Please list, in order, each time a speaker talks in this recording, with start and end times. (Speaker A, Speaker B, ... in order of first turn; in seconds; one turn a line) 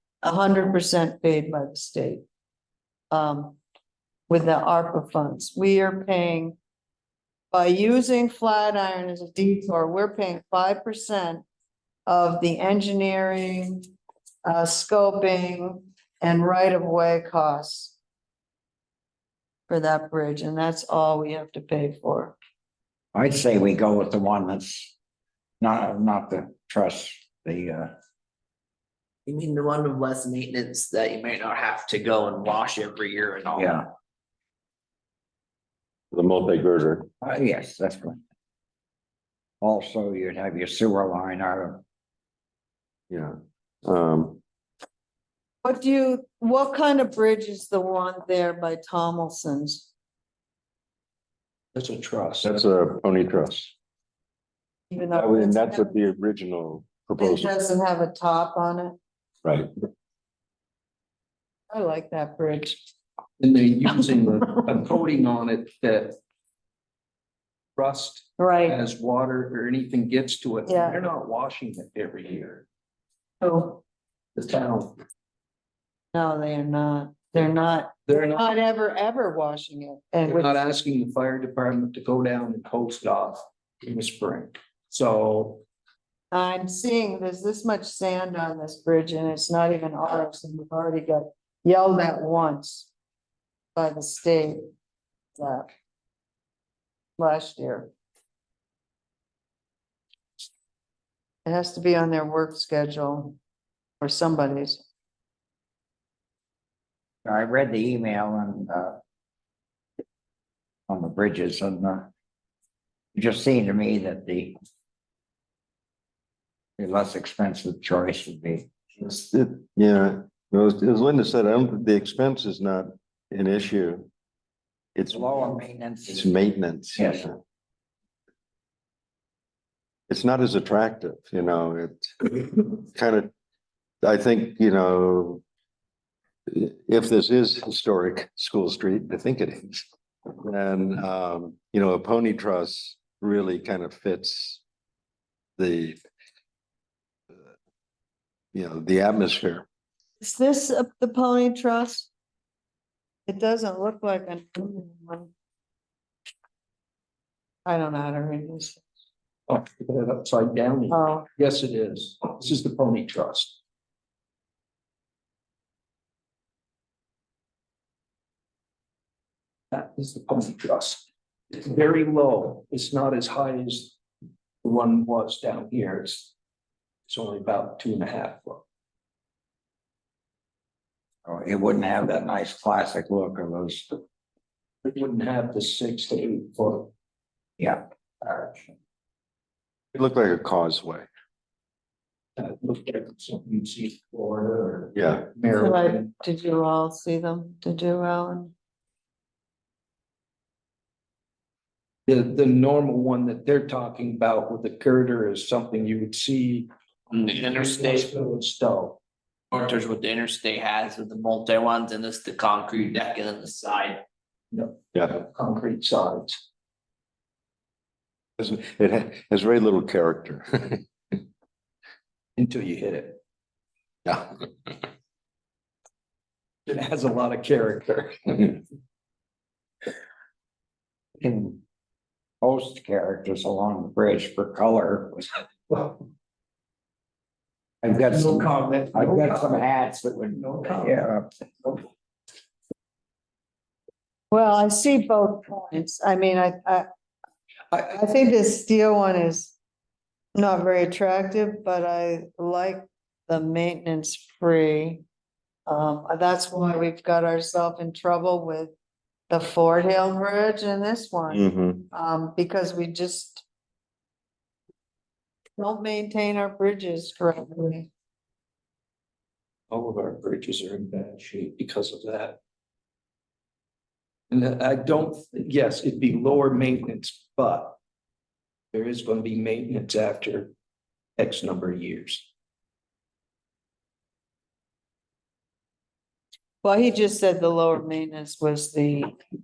Speaker A: 0.2-2.2
Speaker A: 3.1-3.6
Speaker A: 4.3-6.5
Speaker A: 7.5-11.4
Speaker A: 12.1-13.9
Speaker A: 14.4-17.9
Speaker A: 19.7-22.4
Speaker B: 23.1-24.9
Speaker B: 25.6-27.9
Speaker C: 29.3-33.8
Speaker B: 33.5-33.8
Speaker D: 36.1-37.1
Speaker B: 37.2-38.2
Speaker B: 39.6-41.8
Speaker D: 43.1-44.4
Speaker A: 45.6-49.9
Speaker E: 51.7-52.5
Speaker D: 52.4-53.7
Speaker A: 54.9-55.9
Speaker D: 55.1-57.5
Speaker A: 57.2-59.0
Speaker A: 61.7-62.8
Speaker E: 63.4-66.2
Speaker E: 67.8-72.7
Speaker A: 68.4-68.8
Speaker A: 70.7-71.0
Speaker A: 73.4-73.8
Speaker E: 74.3-75.0
Speaker A: 76.1-80.5
Speaker E: 78.1-78.6
Speaker E: 80.2-85.6
Speaker A: 86.3-92.9
Speaker A: 93.7-94.7
Speaker A: 95.4-95.7
Speaker A: 97.2-97.9
Speaker A: 101.4-103.4
Speaker A: 104.0-104.8
Speaker B: 107.2-109.0
Speaker B: 110.9-112.1
Speaker B: 113.1-114.5
Speaker B: 116.8-118.7
Speaker D: 119.0-124.1
Speaker D: 124.9-127.4
Speaker B: 125.1-126.3
Speaker B: 127.0-127.2
Speaker D: 130.1-133.3
Speaker D: 134.0-135.4
Speaker D: 136.5-139.8
Speaker D: 140.4-144.6
Speaker D: 145.6-146.0
Speaker D: 148.5-149.6
Speaker A: 150.2-152.1
Speaker A: 153.3-155.3
Speaker A: 157.6-158.8
Speaker E: 159.5-163.6
Speaker A: 160.9-161.2
Speaker E: 169.7-174.0
Speaker E: 174.6-176.3
Speaker E: 177.1-178.6
Speaker B: 181.2-183.9
Speaker E: 184.8-186.9
Speaker D: 189.9-191.1
Speaker E: 192.4-196.1
Speaker D: 194.9-195.3
Speaker A: 195.6-198.5
Speaker E: 202.1-206.7
Speaker C: 207.1-208.1
Speaker E: 207.3-209.0
Speaker C: 209.5-214.0
Speaker E: 214.5-216.4
Speaker D: 218.4-220.8
Speaker E: 222.4-223.2
Speaker D: 224.0-224.4
Speaker E: 226.7-228.6
Speaker B: 231.2-231.6
Speaker B: 232.4-235.3
Speaker B: 237.8-241.3
Speaker E: 238.1-239.7
Speaker E: 240.3-241.0
Speaker A: 244.3-246.9
Speaker A: 247.7-249.5
Speaker A: 250.3-255.0
Speaker A: 255.7-258.7
Speaker A: 259.3-263.4
Speaker D: 261.3-261.9
Speaker A: 265.6-267.9
Speaker E: 269.7-272.4
Speaker E: 274.3-277.8
Speaker E: 278.7-280.5
Speaker E: 281.2-282.3
Speaker A: 286.6-289.1